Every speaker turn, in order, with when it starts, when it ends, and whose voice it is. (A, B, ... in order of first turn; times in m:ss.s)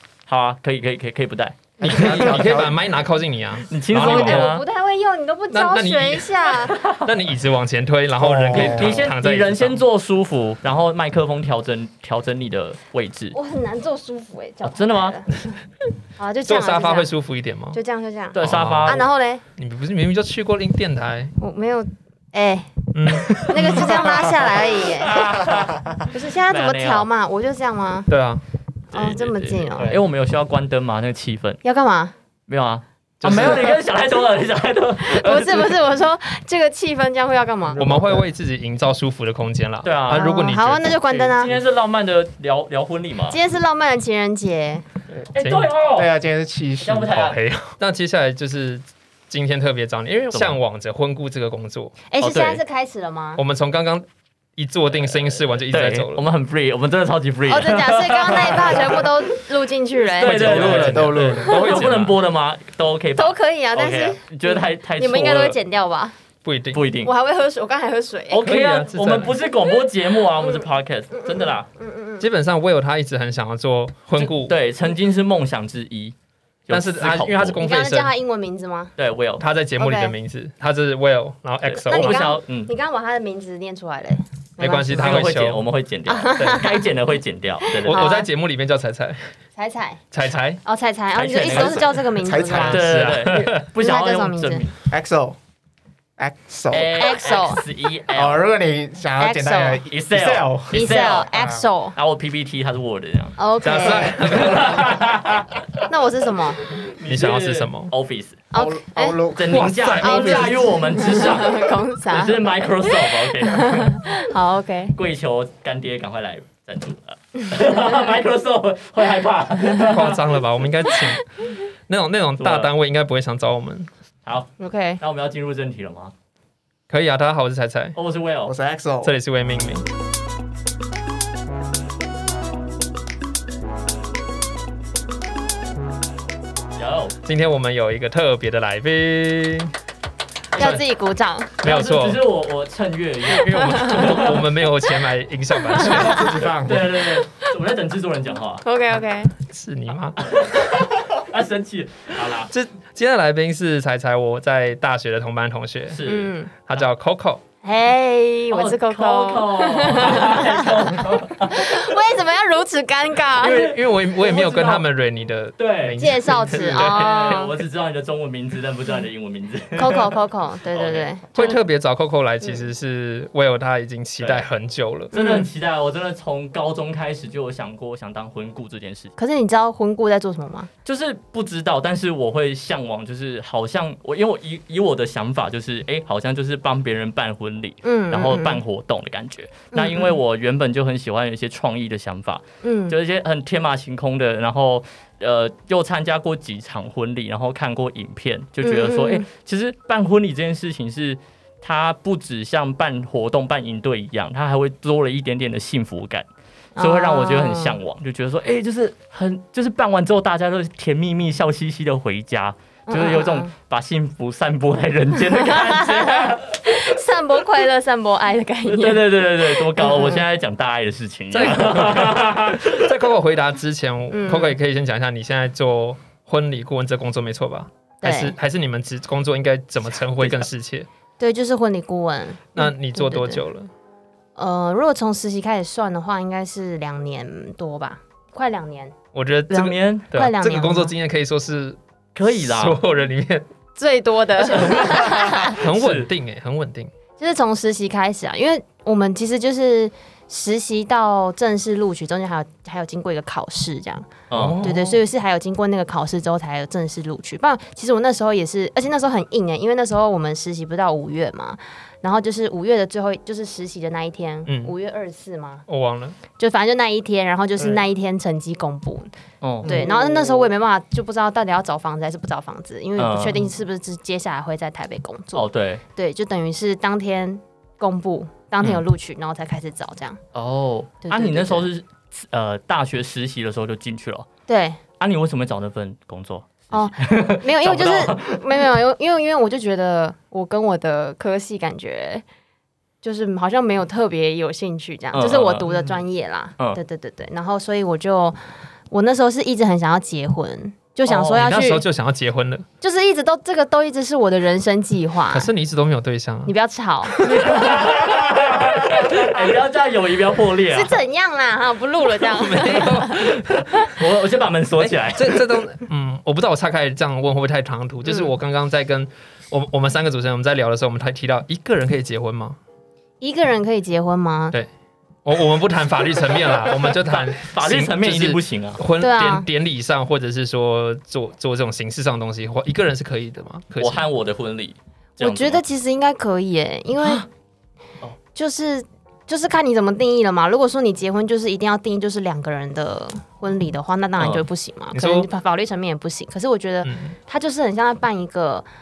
0:00.3-0:02.7 A
0:01.8-0:04.5 B
0:01.8-0:02.8 C
0:03.7-0:04.6 A
0:04.0-0:06.8 D
0:05.5-0:09.8 B
0:08.2-0:09.1 C
0:08.5-0:13.4 A
0:13.3-0:15.6 D
0:14.6-0:15.2 A
0:16.2-0:17.1 D
0:16.5-0:17.8 B
0:17.7-0:19.4 D
0:18.4-0:19.0 A
0:18.4-0:21.3 B
0:21.4-0:25.4 D
0:23.0-0:24.2 B
0:23.4-0:27.1 A
0:25.5-0:25.9 C
0:26.1-0:28.1 D
0:28.1-0:28.4 B
0:28.9-0:30.0 D
0:28.9-0:31.6 A
0:31.6-0:32.2 D
0:32.5-0:35.9 A
0:33.2-0:33.8 B
0:35.0-0:37.8 D
0:37.6-0:38.3 C
0:37.8-0:41.0 B
0:39.8-0:40.3 A
0:40.1-0:41.5 D
0:41.1-0:43.4 A
0:43.3-0:44.8 D
0:45.3-0:46.1 A
0:45.4-0:45.7 B
0:46.0-0:47.2 C
0:46.8-0:47.4 A
0:47.1-0:52.0 B
0:50.3-0:50.6 A
0:52.1-0:53.4 D
0:52.2-0:52.6 A
0:53.4-0:56.2 B
0:55.0-0:59.1 A
0:57.5-1:00.7 D
1:00.2-1:05.6 A
1:00.2-1:02.2 B
1:00.3-1:01.6 C
1:03.2-1:06.2 D
1:06.4-1:06.8 B
1:06.7-1:07.1 A
1:07.0-1:08.6 D
1:08.3-1:11.7 A
1:08.5-1:09.4 B
1:10.3-1:12.3 D
1:12.2-1:14.6 B
1:14.2-1:16.1 A
1:16.7-1:17.6 A
1:16.7-1:18.1 B
1:17.6-1:18.9 D
1:19.0-1:19.4 A
1:19.4-1:22.3 B
1:19.8-1:20.1 D
1:21.7-1:22.7 A
1:21.9-1:25.3 D
1:24.6-1:25.6 B
1:24.9-1:28.1 A
1:26.1-1:26.9 D
1:27.6-1:28.3 D
1:27.9-1:29.2 B
1:29.6-1:30.0 D
1:30.1-1:30.6 B
1:30.6-1:32.8 D
1:31.2-1:34.7 A
1:31.5-1:32.8 C
1:32.4-1:33.7 B
1:33.6-1:34.7 D
1:34.9-1:35.4 C
1:36.2-1:36.9 C
1:36.7-1:38.4 A
1:36.9-1:37.6 D
1:38.1-1:41.6 C
1:39.2-1:39.8 D
1:39.9-1:41.3 A
1:40.7-1:42.0 D
1:42.0-1:45.6 A
1:43.4-1:44.4 D
1:43.6-1:45.1 B
1:45.8-1:46.6 D
1:46.9-1:48.4 A
1:47.0-1:47.9 B
1:48.5-1:49.2 D
1:48.5-1:49.8 C
1:49.4-1:54.0 A
1:49.5-1:50.8 B
1:50.0-1:55.0 D
1:55.0-2:00.2 A
1:59.8-2:03.9 B
2:02.4-2:02.7 A
2:04.2-2:06.1 A
2:04.6-2:05.0 D
2:06.9-2:08.0 B
2:08.0-2:08.5 A
2:08.5-2:09.1 C
2:09.0-2:09.8 B
2:16.8-2:17.2 A
2:17.2-2:19.7 B
2:20.5-2:20.8 A
2:20.5-2:20.8 B
2:20.6-2:21.6 D
2:21.6-2:24.5 A
2:21.6-2:22.2 B
2:23.3-2:26.4 B
2:23.7-2:24.2 D
2:25.7-2:26.3 D
2:25.8-2:28.6 A
2:26.0-2:27.1 C
2:27.2-2:27.5 D
2:28.6-2:29.3 D
2:29.4-2:30.8 B
2:30.2-2:32.5 A
2:32.5-2:36.1 B
2:35.9-2:36.8 A
2:36.0-2:36.5 D
2:36.7-2:37.4 B
2:37.6-2:43.7 D
2:38.5-2:41.8 A
2:43.4-2:44.8 A
2:43.4-2:47.4 B
2:45.6-2:50.2 A
2:46.0-2:47.6 D
2:49.8-2:51.6 D
2:50.7-2:51.6 A
2:51.4-2:55.1 B
2:54.2-2:54.5 A
2:55.1-2:59.2 A
2:55.1-2:55.5 D
2:59.2-3:00.7 D
3:00.8-3:26.3 A
3:07.8-3:08.6 D
3:09.7-3:10.2 D
3:12.6-3:13.0 D
3:18.6-3:19.3 D
3:26.8-3:27.8 D
3:26.8-3:36.4 A
3:32.9-3:33.5 D
3:35.3-3:40.2 D
3:38.7-3:42.9 A
3:41.3-3:50.9 B
3:44.1-3:44.6 D
3:48.0-3:48.4 D
3:51.2-3:53.4 D
3:52.6-3:53.7 B
3:54.4-3:58.9 D
3:59.1-4:01.8 B
3:59.5-4:00.9 D
3:59.5-4:00.1 A
4:02.2-4:02.8 A
4:02.3-4:03.5 B
4:03.8-4:05.6 D
4:04.5-4:06.1 A
4:04.7-4:06.9 B
4:07.2-4:25.6 D
4:14.3-4:14.9 A
4:14.3-4:14.9 B
4:24.5-4:24.7 B
4:25.7-4:26.2 B
4:26.4-4:29.1 D
4:29.4-4:29.8 A
4:29.6-4:30.4 C
4:29.6-4:40.2 D
4:33.0-4:33.5 A
4:35.4-4:35.8 A
4:40.4-4:44.3 A
4:41.0-4:41.7 D
4:44.5-4:44.8 D
4:45.0-4:48.7 A
4:46.7-4:52.2 D
4:53.0-4:58.4 D
4:55.1-4:55.8 A
4:58.9-5:01.8 D
5:01.2-5:02.7 B
5:02.8-5:05.5 D
5:05.3-5:06.5 B
5:06.5-5:07.2 D
5:07.2-5:10.9 A
5:10.7-5:13.9 D
5:12.2-5:13.7 B
5:13.8-5:15.4 A
5:14.8-5:22.6 B
5:18.1-5:18.3 D
5:23.2-5:24.6 D
5:25.2-5:34.1 B
5:27.0-5:28.8 A
5:29.0-5:29.5 D
5:33.8-5:35.6 A
5:35.2-5:37.2 D
5:37.0-5:37.3 A
5:38.4-5:48.7 D
5:44.2-5:44.4 A
5:44.9-5:45.3 B
5:46.8-5:47.2 B